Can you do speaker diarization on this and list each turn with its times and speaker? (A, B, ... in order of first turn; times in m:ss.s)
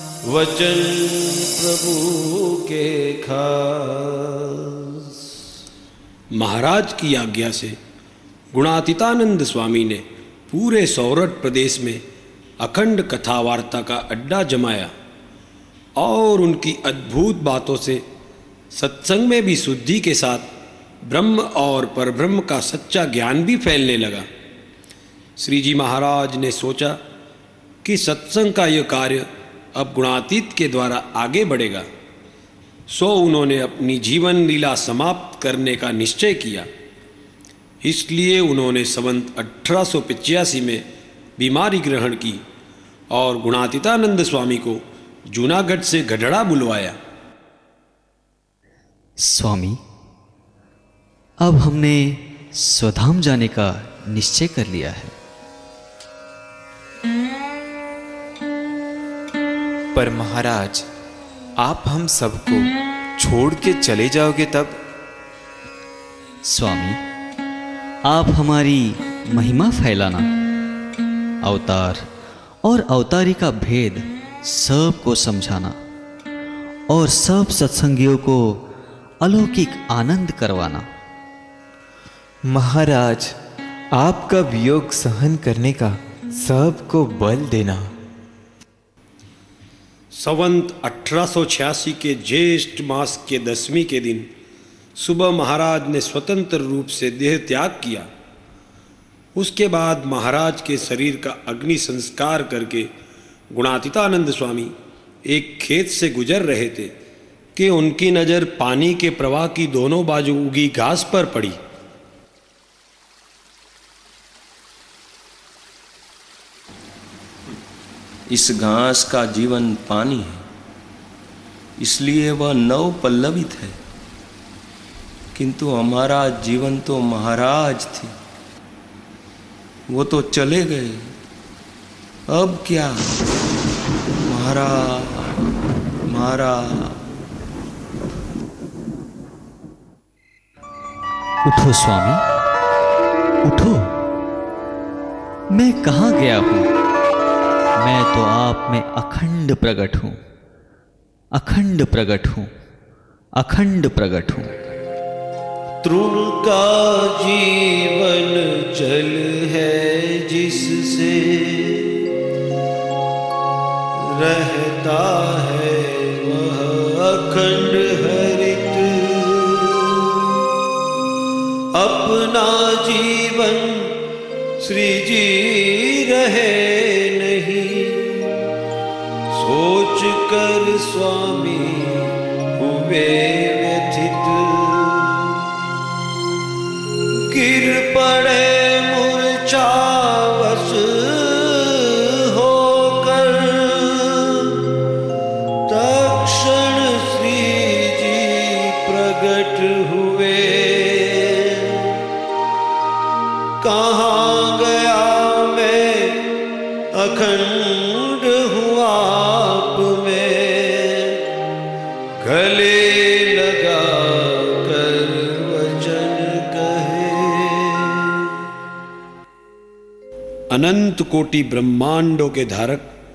0:00.2-0:05.1 A
0:06.3-0:07.8 B
0:08.5-0:12.0 B
0:12.6-0:14.9 B
0:16.0-0:18.0 B
0:18.7-0:20.5 B
0:21.0-0:24.3 B
0:25.4-0:27.0 B
0:27.8-0:31.9 B
0:32.9-0:36.7 B
0:37.8-0:40.9 B
0:41.4-0:42.4 B
0:43.1-0:47.0 B
0:49.2-0:49.8 C
0:51.4-0:55.1 C
1:00.0-1:00.9 D
1:01.6-1:04.8 D
1:06.5-1:07.0 C
1:08.1-1:10.3 C
1:11.4-1:12.1 C
1:12.6-1:15.8 C
1:16.9-1:18.7 C
1:19.2-1:20.9 C
1:22.5-1:23.3 D
1:23.9-1:27.9 D
1:30.1-1:34.3 B
1:35.0-1:38.1 B
1:39.4-1:42.9 B
1:43.5-1:44.7 B
1:45.3-1:46.9 B
1:47.6-1:51.6 B
1:58.3-2:00.4 E
2:01.8-2:03.8 E
2:05.4-2:08.1 E
2:09.9-2:11.1 E
2:12.3-2:13.1 E
2:14.2-2:15.4 E
2:16.1-2:17.0 E
2:21.4-2:22.2 C
2:23.4-2:23.9 C
2:25.5-2:26.7 C
2:27.8-2:30.2 C
2:31.4-2:32.5 C
2:33.4-2:34.5 C
2:35.8-2:41.9 A
2:44.0-2:50.0 A
2:51.8-2:53.9 A
2:54.6-2:58.3 A
2:59.3-3:05.3 A
3:07.3-3:14.5 A
3:15.7-3:21.8 A
3:23.6-3:26.2 A
3:26.9-3:31.2 A
3:32.2-3:38.1 A
3:40.5-3:42.9 B